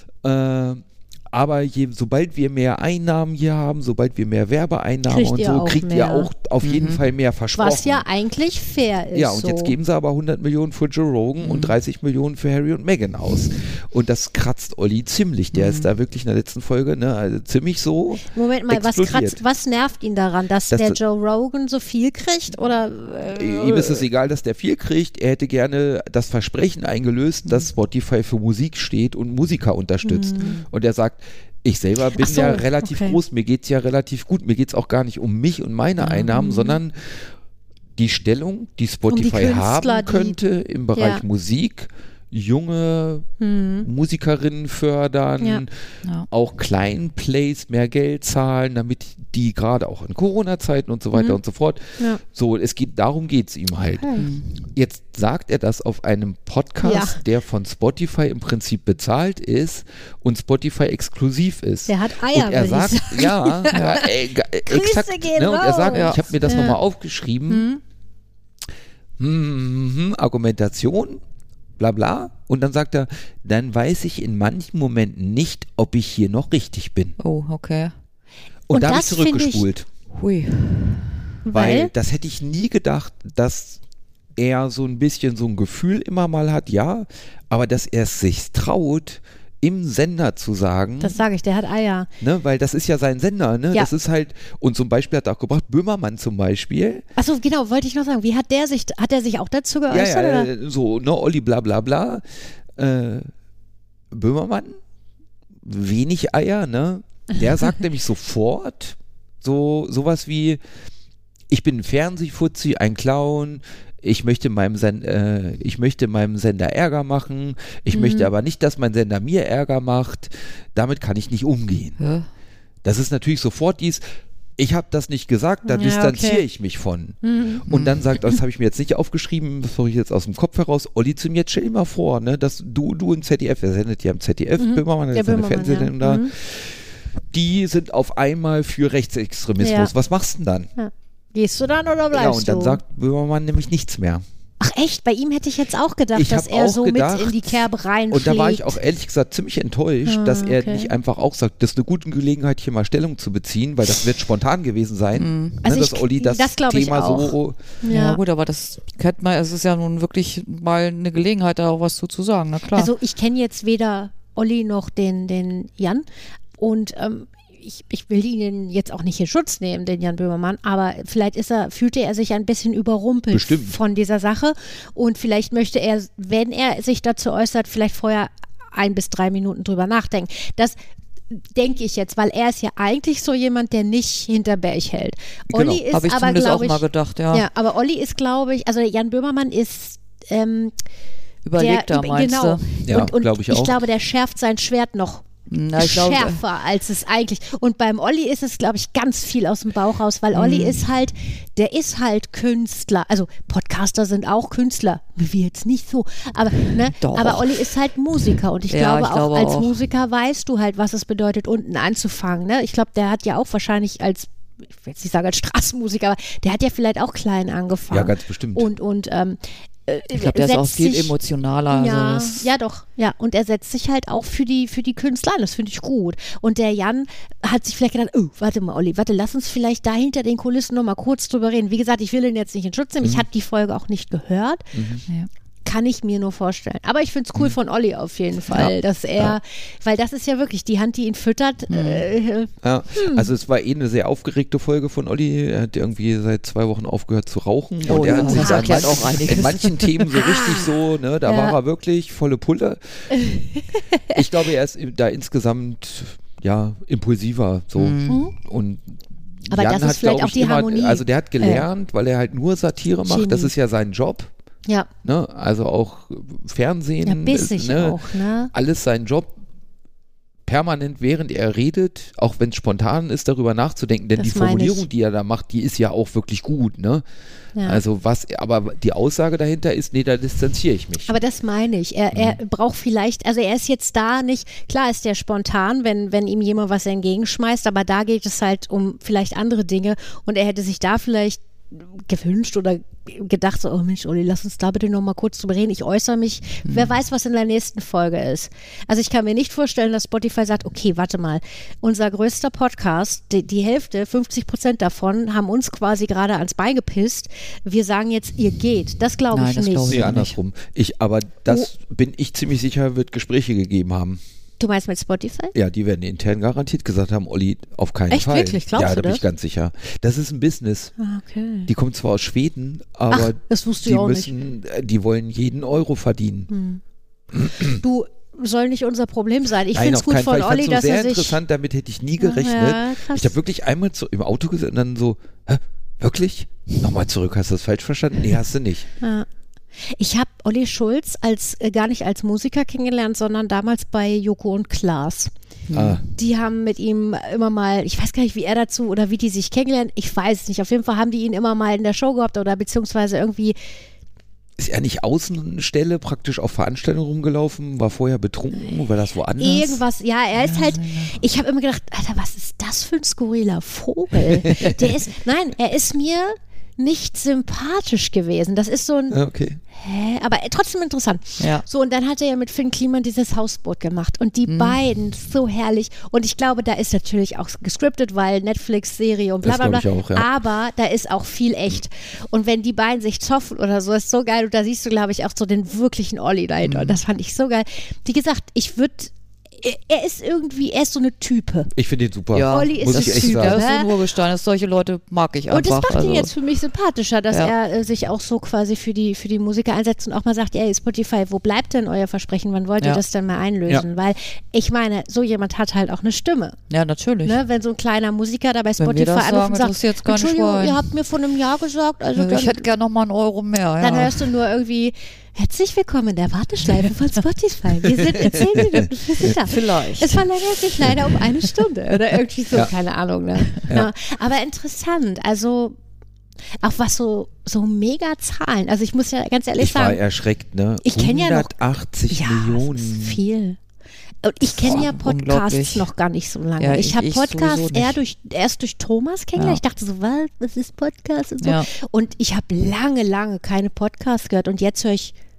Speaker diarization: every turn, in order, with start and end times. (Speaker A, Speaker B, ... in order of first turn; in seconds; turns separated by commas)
Speaker A: 0.2-8.0, Speaker B: 5.1-6.3, Speaker C: 6.6-7.0, Speaker B: 7.5-9.7, Speaker A: 9.1-19.4, Speaker C: 11.4-11.8, Speaker C: 15.5-15.9, Speaker B: 18.3-24.0, Speaker A: 20.7-21.0, Speaker A: 23.3-37.3, Speaker B: 30.0-30.6, Speaker B: 32.1-33.2, Speaker C: 36.0-36.3, Speaker B: 36.3-36.8, Speaker A: 38.0-43.2, Speaker B: 39.1-40.4, Speaker B: 40.9-41.2, Speaker B: 43.4-43.9, Speaker A: 43.8-45.7, Speaker A: 46.3-54.1, Speaker B: 54.0-54.3, Speaker C: 54.2-54.6, Speaker A: 54.7-67.7, Speaker B: 56.8-57.2, Speaker B: 61.9-64.1, Speaker C: 63.7-64.0, Speaker B: 64.6-66.8, Speaker C: 65.9-66.3, Speaker B: 67.5-67.8, Speaker A: 69.2-71.2, Speaker A: 71.8-77.2, Speaker C: 77.2-77.9, Speaker A: 78.7-79.9, Speaker B: 78.7-79.7, Speaker C: 80.1-81.2, Speaker B: 81.4-81.9, Speaker A: 81.5-83.8, Speaker A: 84.3-91.2, Speaker B: 91.0-92.1, Speaker A: 92.2-97.0, Speaker B: 97.2-100.5, Speaker A: 99.9-103.3, Speaker A: 104.1-104.8, Speaker A: 105.6-110.6, Speaker A: 111.5-122.0, Speaker B: 117.9-118.3, Speaker C: 122.0-122.3, Speaker A: 122.8-124.0, Speaker A: 124.6-140.7, Speaker B: 125.7-126.4, Speaker B: 127.2-127.6, Speaker C: 127.7-128.3, Speaker B: 134.6-136.3, Speaker B: 139.6-139.9, Speaker B: 140.8-142.8, Speaker A: 142.1-144.2, Speaker B: 144.6-148.8, Speaker A: 146.1-147.6, Speaker A: 148.1-157.6, Speaker B: 150.1-150.9, Speaker C: 155.2-155.6, Speaker B: 155.6-158.2, Speaker C: 157.9-162.9, Speaker B: 162.7-166.0, Speaker B: 166.6-180.7, Speaker A: 173.3-173.7, Speaker B: 181.3-190.7, Speaker A: 185.5-185.8, Speaker C: 185.9-187.4, Speaker C: 191.4-192.7, Speaker B: 191.5-221.2, Speaker A: 192.8-193.8, Speaker C: 195.5-196.4, Speaker C: 200.3-200.8, Speaker C: 206.9-207.6, Speaker C: 208.7-209.7, Speaker A: 217.9-218.7, Speaker C: 220.1-222.4, Speaker B: 221.7-234.7, Speaker A: 234.7-235.0, Speaker B: 235.6-243.3, Speaker A: 238.5-239.3, Speaker C: 241.7-242.0, Speaker A: 242.6-253.1, Speaker C: 247.8-250.1, Speaker B: 248.0-249.1, Speaker B: 250.1-250.7, Speaker B: 251.2-251.6, Speaker B: 253.1-254.2, Speaker A: 254.1-258.9, Speaker C: 257.8-258.2, Speaker B: 258.1-258.3, Speaker A: 259.5-264.3, Speaker B: 259.5-261.6, Speaker B: 263.1-263.5, Speaker A: 265.0-268.0, Speaker B: 267.0-268.5, Speaker A: 268.5-269.3, Speaker A: 270.4-277.0, Speaker B: 274.2-274.9, Speaker B: 277.5-277.8, Speaker A: 277.6-281.1, Speaker B: 281.1-310.1, Speaker C: 296.6-296.9, Speaker C: 309.3-310.4, Speaker A: 309.9-314.2, Speaker B: 314.6-315.5, Speaker A: 315.5-320.9, Speaker B: 318.1-319.2, Speaker B: 321.0-321.7, Speaker A: 321.7-326.5, Speaker B: 323.1-324.3, Speaker B: 326.5-326.8, Speaker A: 327.3-327.8, Speaker B: 327.7-331.4, Speaker A: 329.7-338.9, Speaker B: 332.2-333.3, Speaker B: 339.0-339.2, Speaker B: 339.8-345.3, Speaker C: 345.7-346.0, Speaker A: 345.7-346.0, Speaker B: 346.1-353.6, Speaker A: 354.6-359.8, Speaker B: 359.4-369.2, Speaker C: 360.4-361.1, Speaker A: 364.3-364.9, Speaker A: 369.1-369.6, Speaker B: 369.7-391.7, Speaker C: 371.4-371.6, Speaker C: 374.5-374.8, Speaker A: 379.4-380.3, Speaker C: 386.6-387.0, Speaker A: 391.7-393.6, Speaker C: 392.3-396.3, Speaker B: 392.5-393.9, Speaker B: 395.5-406.6, Speaker C: 406.7-407.4, Speaker B: 407.2-412.6, Speaker C: 408.8-410.8, Speaker C: 412.2-414.3, Speaker B: 413.8-425.8, Speaker C: 419.2-420.3, Speaker B: 426.6-430.0, Speaker A: 429.6-433.2, Speaker B: 430.8-431.5, Speaker B: 432.1-433.6, Speaker B: 434.2-445.1, Speaker C: 434.6-435.9, Speaker C: 436.6-438.0, Speaker C: 441.4-441.7